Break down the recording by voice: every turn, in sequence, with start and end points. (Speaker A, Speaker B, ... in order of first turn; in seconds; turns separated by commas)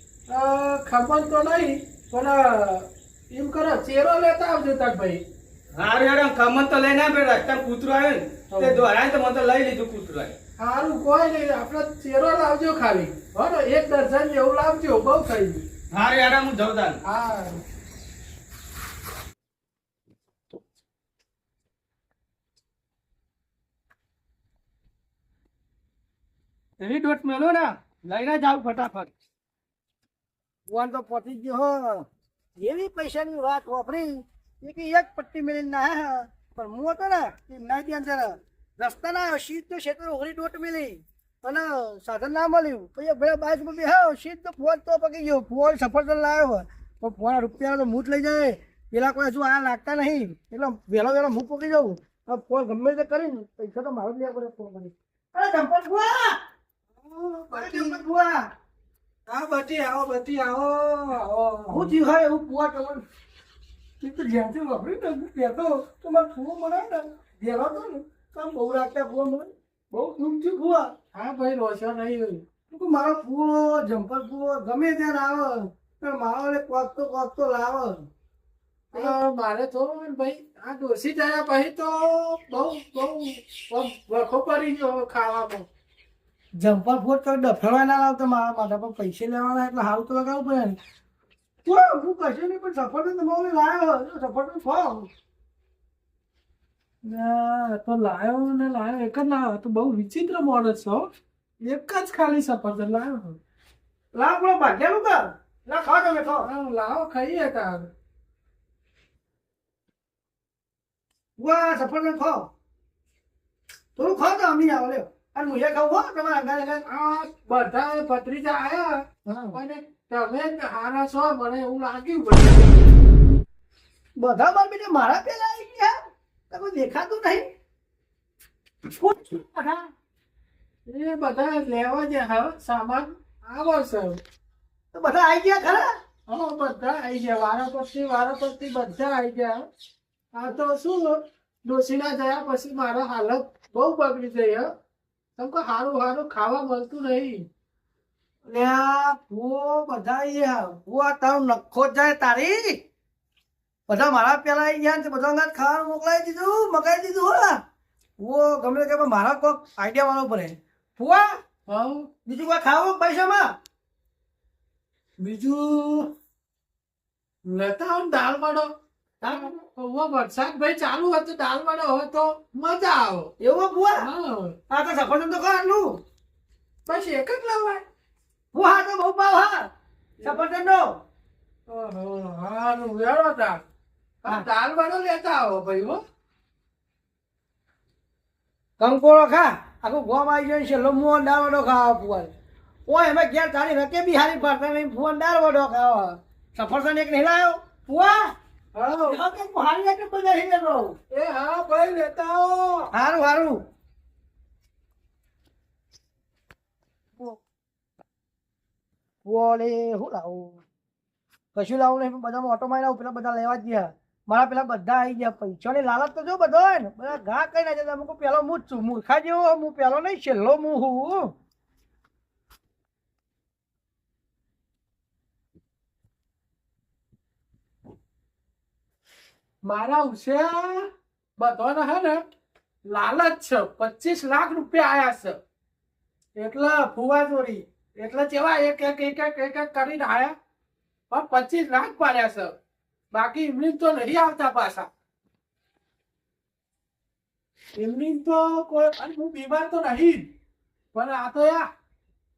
Speaker A: 0.3-5.2, Speaker B: 5.8-10.4, Speaker A: 8.5-8.9, Speaker A: 10.6-15.7, Speaker B: 15.9-17.0, Speaker A: 17.1-17.6, Speaker B: 26.8-29.1, Speaker C: 30.7-32.1, Speaker C: 32.6-56.4, Speaker A: 57.0-58.0, Speaker C: 57.5-58.5, Speaker A: 59.3-62.0, Speaker C: 61.7-63.0, Speaker C: 64.0-70.9, Speaker A: 71.1-72.5, Speaker C: 72.7-78.1, Speaker A: 78.9-85.7, Speaker C: 86.6-90.8, Speaker C: 91.7-95.1, Speaker A: 97.0-101.1, Speaker A: 101.6-103.4, Speaker C: 104.1-106.5, Speaker A: 106.4-107.9, Speaker C: 111.4-112.5, Speaker C: 114.0-116.8, Speaker A: 116.9-122.9, Speaker C: 119.3-119.6, Speaker C: 124.2-125.9, Speaker C: 126.5-127.5, Speaker C: 128.9-129.8, Speaker A: 130.9-134.2, Speaker C: 134.9-135.9, Speaker A: 136.3-139.7, Speaker A: 140.3-144.7, Speaker A: 145.4-147.4, Speaker C: 148.5-152.8, Speaker C: 153.9-157.6, Speaker C: 158.2-161.3, Speaker A: 161.7-162.1, Speaker C: 162.3-163.5, Speaker A: 165.2-166.1, Speaker A: 167.5-168.7, Speaker C: 169.2-169.6, Speaker A: 169.3-173.3, Speaker C: 173.4-174.1, Speaker A: 174.0-174.6, Speaker C: 174.7-176.0, Speaker A: 176.9-177.8, Speaker C: 178.5-179.7, Speaker C: 180.2-180.9, Speaker A: 181.7-183.6, Speaker A: 184.2-186.0, Speaker C: 188.8-192.3, Speaker C: 192.9-198.3, Speaker A: 198.7-199.2, Speaker C: 199.1-201.0, Speaker A: 201.1-202.9, Speaker C: 202.9-203.6, Speaker C: 209.2-210.6, Speaker C: 211.6-221.3, Speaker A: 229.7-232.2, Speaker A: 232.9-235.4, Speaker A: 236.4-240.3, Speaker A: 241.1-242.5, Speaker A: 243.1-244.9, Speaker A: 247.8-250.3, Speaker A: 250.9-251.7